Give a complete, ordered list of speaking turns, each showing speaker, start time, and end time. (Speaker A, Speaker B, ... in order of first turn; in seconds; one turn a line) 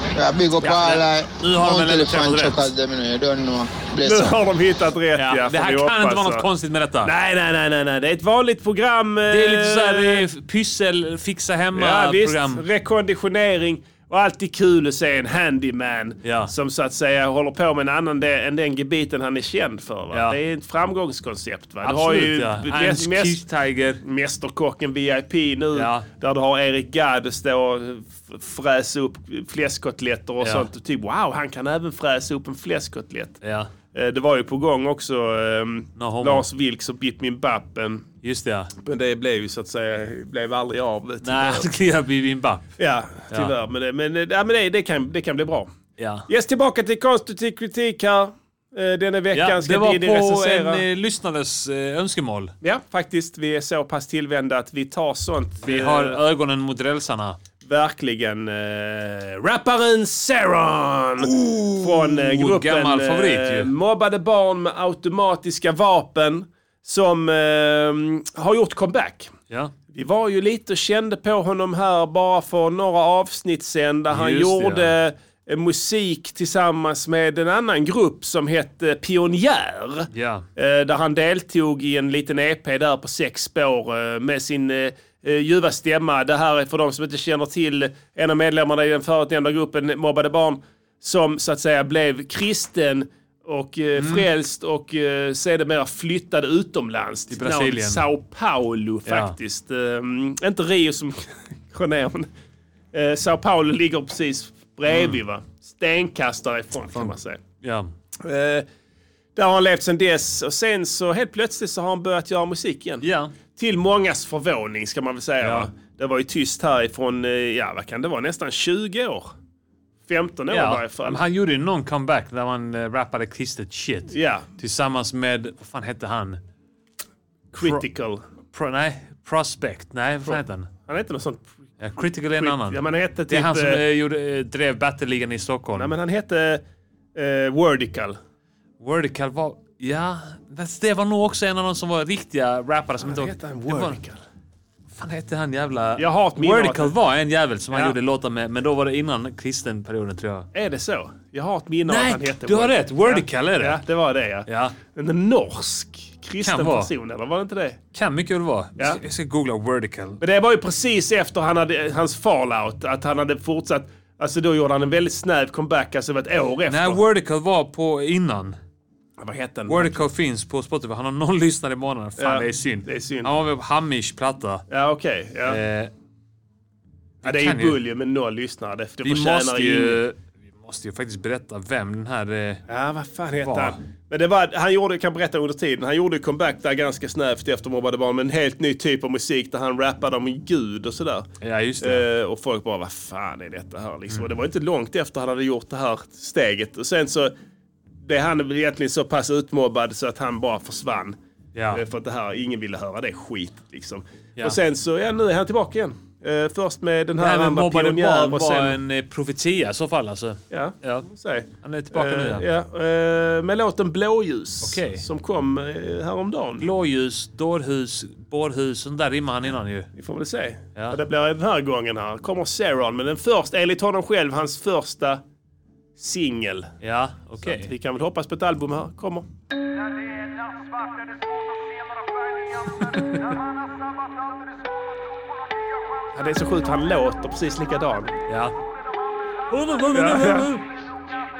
Speaker A: 0.1-4.4
Speaker B: 0.6-2.7
Speaker C: 4.0-6.5
Speaker B: 5.2-7.1
Speaker C: 7.0-10.3
Speaker B: 9.3-12.6
Speaker C: 11.7-23.5
Speaker B: 16.2-16.5
Speaker B: 20.1-20.4
Speaker B: 21.8-24.0
Speaker C: 24.0-33.4
Speaker B: 25.7-26.1
Speaker B: 30.4-30.7
Speaker B: 33.4-33.7
Speaker C: 33.9-38.1
Speaker B: 36.0-36.5
Speaker B: 38.2-38.7
Speaker C: 38.8-41.7
Speaker B: 41.2-42.7
Speaker C: 42.8-45.7
Speaker B: 46.0-46.3
Speaker C: 46.3-50.8
Speaker B: 49.3-52.5
Speaker C: 52.6-56.2
Speaker B: 55.6-57.4
Speaker C: 57.6-69.3
Speaker B: 61.4-63.7
Speaker C: 69.9-102.3
Speaker B: 74.1-74.9
Speaker B: 80.1-80.5
Speaker B: 94.0-94.3
Speaker B: 97.3-98.1
Speaker B: 99.1-99.4
Speaker C: 102.9-107.4
Speaker B: 104.9-105.2
Speaker B: 106.9-107.9
Speaker C: 108.2-108.7
Speaker C: 109.4-119.3
Speaker B: 113.0-113.3
Speaker B: 115.4-115.7
Speaker C: 120.1-121.2
Speaker B: 120.5-126.4
Speaker C: 124.1-124.5
Speaker C: 127.5-128.2
Speaker B: 128.5-130.7
Speaker C: 130.2-131.4
Speaker B: 131.8-135.9
Speaker C: 132.4-133.8
Speaker C: 135.8-136.6
Speaker C: 137.2-138.2
Speaker B: 138.8-144.0
Speaker C: 143.0-144.2
Speaker B: 145.0-150.5
Speaker C: 146.0-146.9
Speaker C: 147.7-148.0
Speaker C: 150.5-157.8
Speaker B: 151.9-153.8
Speaker B: 154.5-154.8
Speaker B: 156.4-156.9
Speaker B: 157.9-160.2
Speaker C: 160.2-167.0
Speaker B: 166.7-168.6
Speaker C: 169.2-170.0
Speaker B: 169.7-174.7
Speaker C: 172.2-173.3
Speaker C: 174.7-175.6
Speaker B: 175.5-175.9
Speaker C: 177.2-180.0
Speaker B: 177.2-177.8
Speaker B: 179.0-182.6
Speaker C: 182.7-191.3
Speaker B: 183.4-183.8
Speaker B: 191.4-192.1
Speaker C: 191.8-197.3
Speaker C: 198.0-201.2
Speaker B: 201.6-201.8
Speaker C: 201.7-208.8
Speaker B: 207.2-211.1
Speaker C: 210.5-216.7
Speaker B: 211.6-212.5
Speaker B: 214.6-215.0
Speaker B: 216.6-219.9
Speaker C: 219.9-225.2
Speaker C: 226.0-226.7
Speaker B: 226.8-227.7
Speaker C: 227.4-229.3
Speaker B: 232.9-233.2
Speaker C: 236.1-238.2
Speaker B: 238.3-238.5
Speaker B: 239.5-240.6
Speaker C: 239.9-240.5